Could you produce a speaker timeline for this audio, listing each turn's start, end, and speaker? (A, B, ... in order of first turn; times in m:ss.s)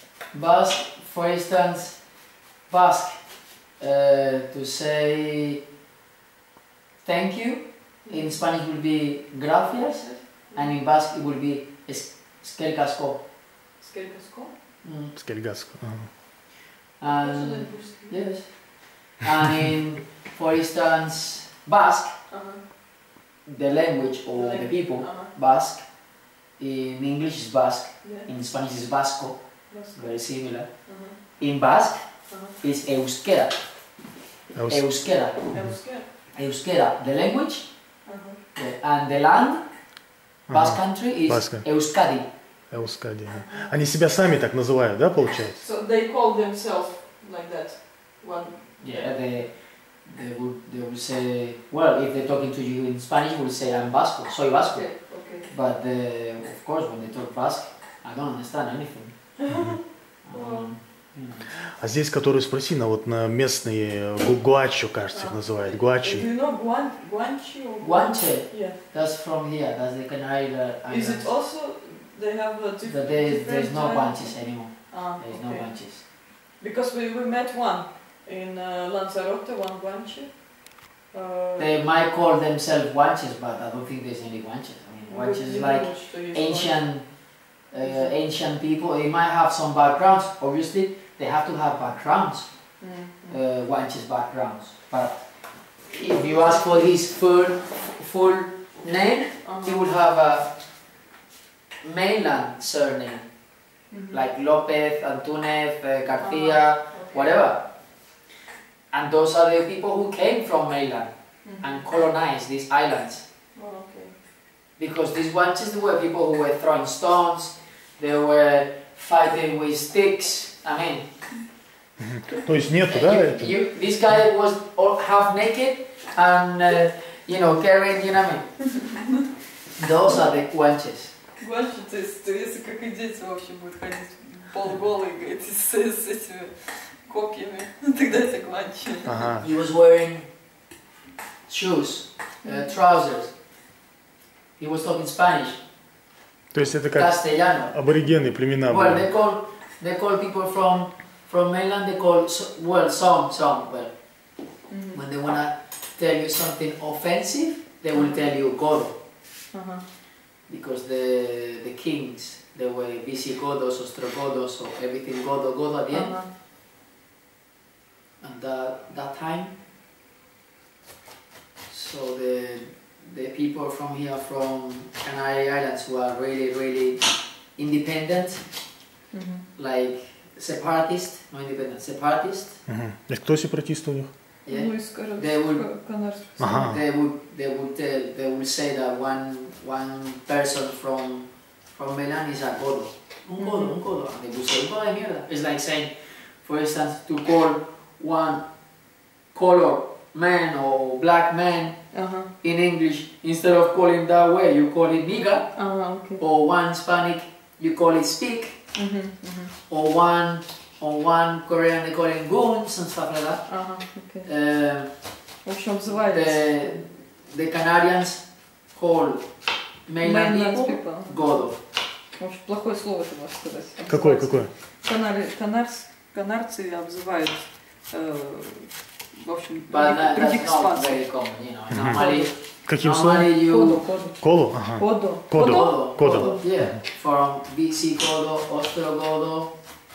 0:00.3-0:02.0 A
0:02.7-0:03.2 A
0:03.8-0:05.6 A
0:07.0-0:13.2 A
0:08.0-0:08.4 B
0:09.6-0:10.8 B
0:13.8-0:14.5 B
0:14.8-0:15.1 A
0:15.1-0:16.1 C
0:17.0-0:22.1 A
0:17.0-0:18.4 B
0:22.3-0:22.6 B
0:23.4-0:25.9 A
0:24.3-0:25.3 B
0:26.6-0:29.4 A
0:28.0-0:28.3 B
0:29.7-0:30.2 B
0:29.9-0:30.7 A
0:30.8-0:31.2 B
0:31.4-0:32.1 A
0:32.3-0:32.6 B
0:32.6-0:33.6 A
0:34.5-0:34.9 C
0:34.7-0:35.6 A
0:35.5-0:36.1 B
0:36.3-0:37.7 A
0:38.0-0:38.4 B
0:38.5-0:39.6 A
0:40.5-0:41.7 C
0:40.5-0:42.3 A
0:42.7-0:45.6 C
0:43.3-0:43.7 B
0:45.6-0:49.2 B
0:48.8-0:59.4 A
0:54.5-0:55.5 B
0:59.5-1:00.7 B
0:59.5-0:59.8 C
1:00.2-1:01.5 A
1:01.5-1:06.3 C
1:05.1-1:08.8 B
1:07.8-1:11.3 A
1:10.9-1:21.8 B
1:12.8-1:16.0 A
1:21.6-1:27.1 A
1:25.1-1:26.9 B
1:27.7-1:32.5 A
1:27.8-1:28.1 B
1:32.8-1:33.4 B
1:33.3-1:35.2 A
1:35.8-1:40.5 A
1:36.0-1:36.8 B
1:39.4-1:39.8 B
1:41.8-1:43.3 A
1:43.9-1:44.2 B
1:44.1-1:47.6 A
1:46.2-1:47.5 B
1:48.9-1:53.2 A
1:51.4-1:51.8 B
1:53.5-1:54.1 B
1:54.8-2:01.1 A
2:02.0-2:03.5 C
2:02.9-2:08.7 A
2:03.4-2:03.8 B
2:09.8-2:11.1 A
2:11.4-2:19.3 B
2:19.0-2:19.4 C
2:19.4-2:20.3 A
2:21.5-2:23.3 A
2:22.4-2:22.7 B
2:24.6-2:25.6 A
2:26.5-2:29.1 C
2:26.9-2:27.7 A
2:28.6-2:33.9 A
2:34.7-2:35.0 B
2:34.9-2:39.0 A
2:39.5-2:39.8 B
2:40.5-2:46.2 A
2:45.9-2:46.3 B
2:48.2-2:49.6 A
2:51.7-2:58.5 A
2:59.1-2:59.4 B
2:59.6-3:02.6 A
3:02.7-3:04.1 C
3:04.4-3:05.6 A
3:04.5-3:06.7 B
3:06.4-3:06.8 C
3:06.4-3:18.4 A
3:13.4-3:13.8 B
3:19.3-3:21.8 A
3:21.9-3:22.3 B
3:22.4-3:25.5 A
3:25.5-3:26.2 B
3:26.2-3:28.6 A
3:28.7-3:29.5 B
3:29.7-3:33.6 A
3:33.5-3:34.3 B
3:34.2-3:35.1 A
3:35.4-3:36.8 B
3:35.8-3:39.3 A
3:39.8-3:41.6 A
3:40.0-3:51.3 B
3:43.9-3:44.5 C
3:49.7-3:53.9 A
3:51.7-3:53.3 C
3:51.9-3:52.3 B
3:53.4-3:56.4 B
3:54.2-3:56.8 C
3:55.4-3:59.5 A